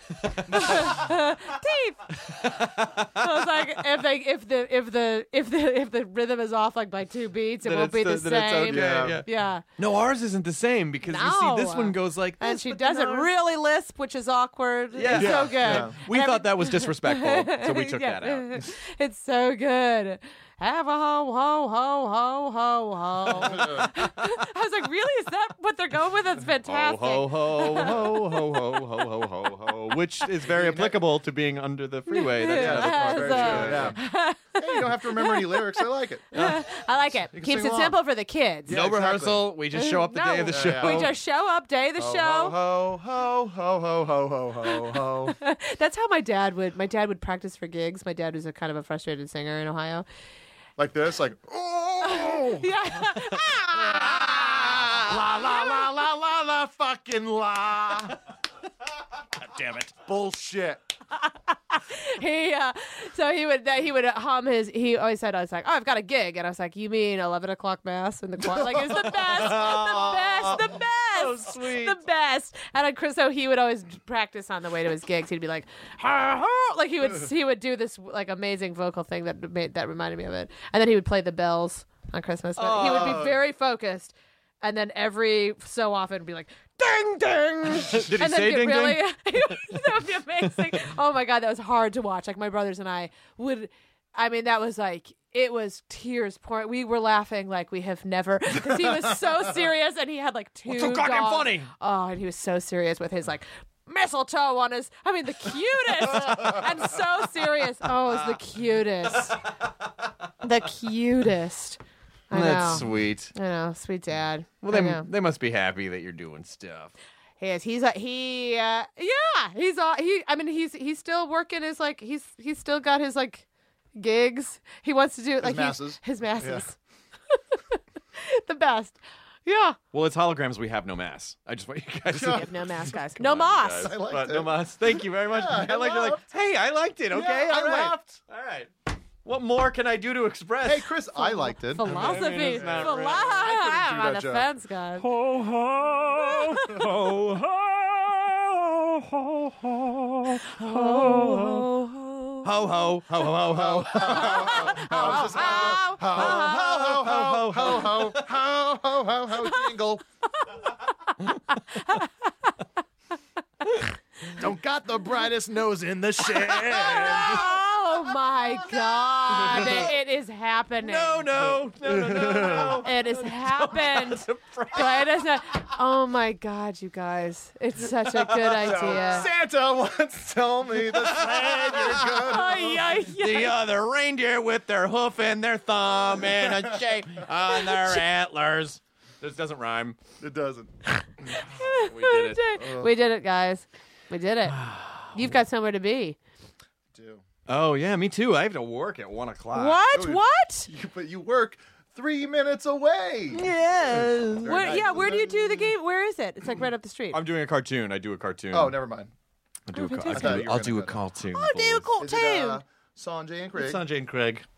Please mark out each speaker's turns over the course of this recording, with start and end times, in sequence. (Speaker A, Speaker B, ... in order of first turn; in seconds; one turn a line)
Speaker A: 0.2-1.1
Speaker B: 0.5-2.2
Speaker A: 2.2-3.8
Speaker B: 3.1-9.6
Speaker A: 7.6-13.3
Speaker C: 8.7-9.2
Speaker B: 11.1-28.0
Speaker A: 14.9-18.7
Speaker C: 15.1-15.9
Speaker A: 23.5-23.9
Speaker A: 26.6-34.0
Speaker C: 30.4-30.9
Speaker B: 32.1-38.7
Speaker C: 32.5-34.0
Speaker C: 34.5-36.4
Speaker C: 37.1-38.0
Speaker C: 38.7-39.6
Speaker A: 38.7-41.1
Speaker B: 39.7-42.6
Speaker C: 40.5-41.1
Speaker C: 42.0-45.4
Speaker B: 44.6-50.0
Speaker C: 50.8-52.7
Speaker B: 52.0-54.8
Speaker C: 53.7-58.2
Speaker A: 54.5-55.0
Speaker A: 59.4-59.9
Speaker C: 59.9-60.8
Speaker B: 61.5-109.4
Speaker C: 68.4-69.9
Speaker A: 69.1-72.0
Speaker A: 82.6-83.4
Speaker C: 82.8-83.2
Speaker A: 87.7-90.8
Speaker A: 100.7-101.7
Speaker B: 110.4-115.0
Speaker A: 112.3-113.3
Speaker A: 114.6-116.9
Speaker B: 117.4-126.8
Speaker C: 125.4-126.6
Speaker B: 127.3-129.8
Speaker A: 129.9-138.7
Speaker C: 132.1-132.5
Speaker B: 132.2-133.9
Speaker C: 133.8-136.2
Speaker C: 137.1-138.2
Speaker A: 139.2-140.9
Speaker C: 140.6-144.5
Speaker B: 141.2-145.1
Speaker A: 141.8-143.5
Speaker A: 145.0-151.7
Speaker B: 146.2-146.9
Speaker B: 150.4-152.5
Speaker A: 152.4-158.3
Speaker C: 153.4-160.0
Speaker B: 154.0-156.6
Speaker B: 160.4-162.5
Speaker C: 164.3-167.5
Speaker A: 166.3-167.6
Speaker B: 166.7-171.3
Speaker A: 168.5-169.9
Speaker A: 170.8-175.4
Speaker C: 171.8-172.8
Speaker B: 172.5-179.3
Speaker A: 178.0-179.4
Speaker C: 178.4-183.0
Speaker A: 180.8-182.3
Speaker B: 182.2-183.6
Speaker A: 183.1-190.0
Speaker C: 190.2-190.7
Speaker B: 191.0-194.6
Speaker A: 191.6-192.4
Speaker C: 192.6-192.9
Speaker A: 194.5-195.1
Speaker B: 195.1-196.2
Speaker C: 196.9-197.2
Speaker A: 197.5-199.8
Speaker B: 199.5-200.7
Speaker C: 199.9-205.7
Speaker A: 203.3-204.8
Speaker B: 204.4-207.2
Speaker A: 207.1-208.8
Speaker C: 208.5-209.1
Speaker A: 209.7-211.9
Speaker B: 209.7-210.6
Speaker C: 210.1-211.0
Speaker B: 211.3-212.6
Speaker C: 212.0-213.8
Speaker A: 213.6-214.4